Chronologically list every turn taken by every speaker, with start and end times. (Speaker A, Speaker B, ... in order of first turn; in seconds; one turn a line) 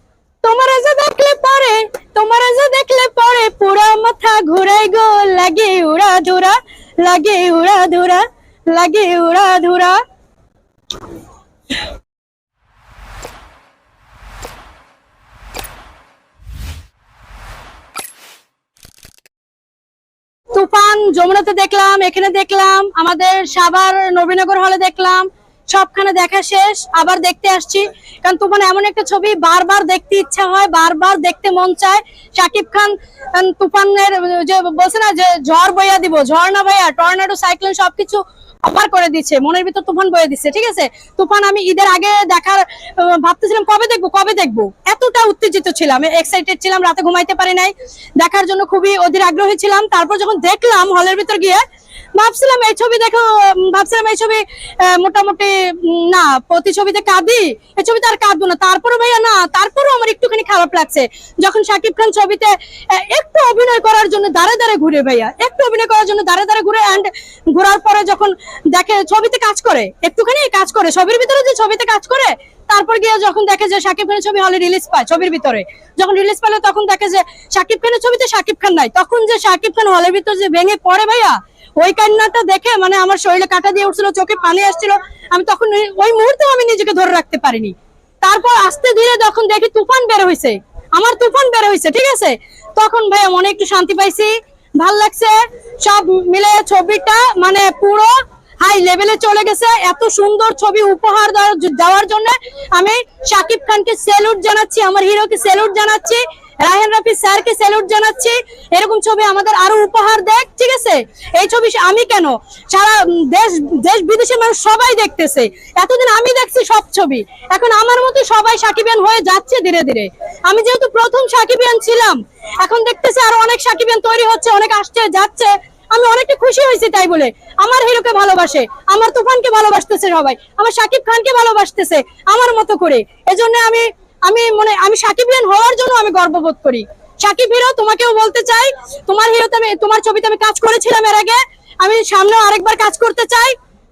Speaker A: 0.4-10.0
Speaker A: 20.5-51.6
Speaker A: 52.1-143.6